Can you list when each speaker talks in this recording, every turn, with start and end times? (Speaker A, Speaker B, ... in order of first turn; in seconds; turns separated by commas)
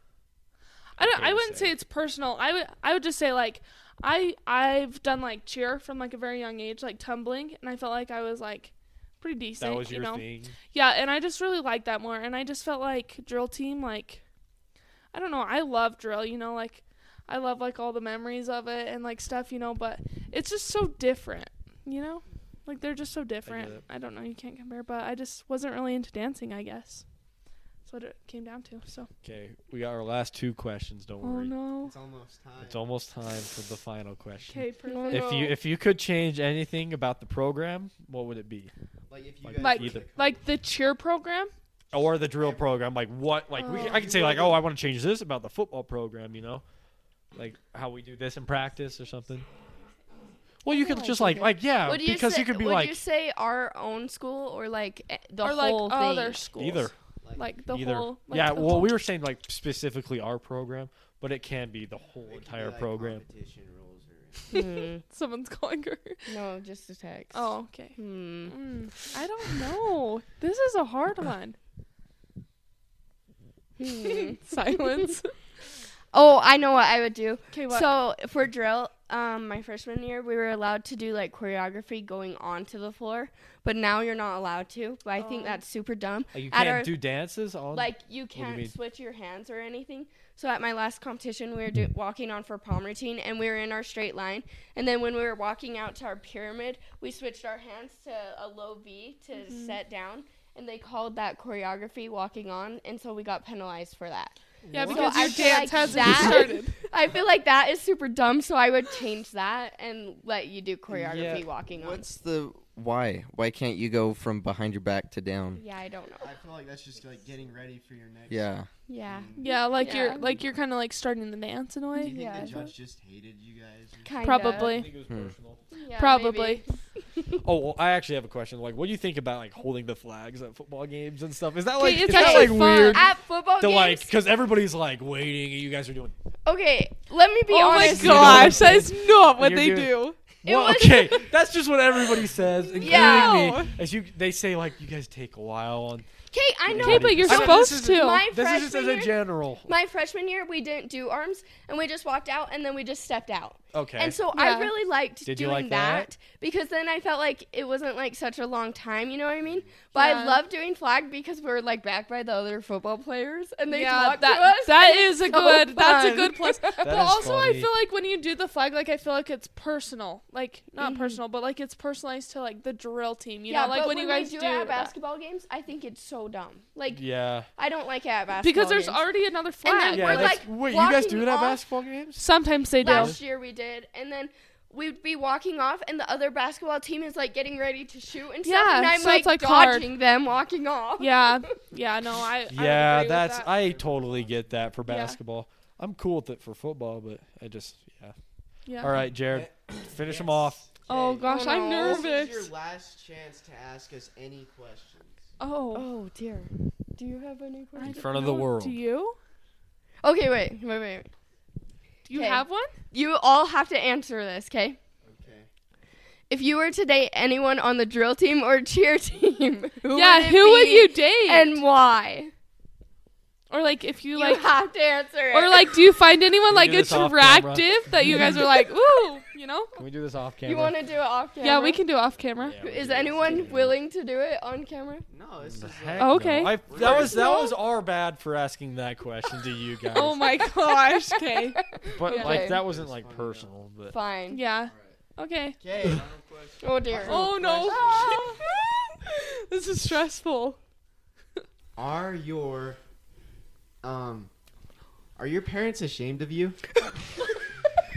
Speaker A: 1.0-1.8, Speaker B: 1.0-14.2, Speaker A: 9.6-10.6, Speaker B: 15.1-27.0, Speaker A: 23.4-23.8, Speaker B: 27.9-29.1, Speaker A: 29.2-31.5, Speaker B: 31.2-31.9, Speaker C: 31.8-32.8, Speaker A: 32.6-38.7, Speaker B: 34.5-35.5, Speaker D: 34.9-35.5, Speaker C: 39.1-40.4, Speaker A: 39.4-40.0, Speaker B: 39.6-41.5, Speaker A: 41.9-46.6, Speaker C: 42.0-42.7, Speaker B: 43.6-44.0, Speaker C: 43.6-44.6, Speaker A: 47.3-49.5, Speaker C: 49.4-50.0, Speaker A: 50.6-53.0, Speaker B: 50.7-51.5, Speaker D: 51.0-56.4, Speaker B: 55.4-59.0, Speaker A: 56.6-56.9, Speaker C: 57.2-57.5, Speaker A: 57.7-63.2, Speaker C: 62.2-64.7, Speaker D: 64.5-65.0, Speaker B: 64.5-66.2, Speaker D: 66.2-68.5, Speaker B: 67.3-68.0, Speaker B: 68.5-71.6, Speaker D: 73.8-74.4, Speaker B: 73.9-75.3, Speaker D: 76.1-87.0, Speaker B: 77.5-77.9, Speaker B: 85.2-85.6, Speaker A: 86.3-88.7, Speaker D: 87.7-112.0, Speaker B: 99.4-99.8, Speaker A: 104.6-106.3, Speaker B: 104.7-106.8, Speaker A: 111.1-111.5, Speaker C: 111.1-111.4, Speaker E: 111.8-115.6, Speaker D: 115.5-116.3, Speaker C: 116.2-120.2, Speaker E: 118.3-118.7, Speaker D: 118.9-120.4, Speaker B: 119.4-122.6, Speaker D: 121.9-122.7, Speaker C: 122.0-124.4, Speaker D: 124.0-124.8, Speaker B: 124.2-124.9, Speaker A: 124.5-125.6, Speaker D: 125.7-127.3, Speaker B: 126.0-126.6, Speaker A: 127.4-136.1, Speaker B: 131.8-133.1, Speaker D: 132.0-134.1, Speaker D: 136.4-138.8, Speaker B: 137.5-141.2, Speaker A: 137.7-146.1, Speaker D: 142.8-143.6, Speaker B: 142.8-143.7, Speaker D: 146.3-166.8, Speaker A: 146.6-149.7, Speaker B: 146.7-148.2, Speaker A: 153.7-154.2, Speaker B: 154.3-154.7, Speaker A: 155.2-156.1, Speaker B: 159.9-160.4, Speaker B: 163.7-174.9, Speaker A: 166.8-167.7, Speaker D: 170.8-171.2, Speaker D: 173.5-177.0, Speaker A: 176.9-177.5, Speaker D: 177.5-179.0, Speaker B: 178.4-180.4, Speaker D: 179.6-181.6, Speaker A: 179.9-182.2, Speaker B: 182.2-183.2, Speaker A: 182.8-183.2, Speaker D: 182.8-191.5, Speaker B: 188.4-189.9, Speaker B: 191.0-193.5, Speaker A: 192.5-198.1, Speaker C: 193.5-194.7, Speaker B: 194.8-195.2, Speaker B: 198.7-199.0, Speaker A: 198.8-200.6, Speaker C: 199.3-205.3, Speaker B: 200.9-202.5, Speaker D: 201.2-202.1, Speaker B: 205.4-205.9, Speaker D: 205.7-208.0, Speaker B: 207.8-209.2, Speaker A: 207.8-208.8, Speaker D: 210.0-211.1, Speaker B: 212.0-212.7, Speaker D: 212.1-214.8, Speaker C: 215.0-215.5, Speaker D: 216.3-222.3, Speaker B: 219.9-221.6, Speaker B: 223.5-224.6, Speaker D: 224.1-225.8, Speaker B: 225.3-229.7, Speaker A: 226.5-228.3, Speaker A: 229.8-230.7, Speaker D: 230.4-231.8, Speaker B: 231.4-232.6, Speaker A: 232.4-233.8, Speaker C: 232.6-233.5, Speaker D: 232.6-235.1, Speaker C: 235.1-237.4, Speaker A: 235.4-240.3, Speaker B: 236.0-237.5, Speaker B: 239.9-242.5, Speaker D: 240.6-242.6, Speaker A: 241.9-243.9, Speaker C: 242.4-243.5, Speaker D: 243.9-244.4, Speaker B: 244.3-245.6, Speaker C: 244.6-245.0, Speaker C: 245.6-248.5, Speaker D: 246.6-248.4, Speaker B: 247.1-250.6, Speaker C: 251.8-252.8, Speaker C: 253.8-254.3, Speaker C: 255.2-256.6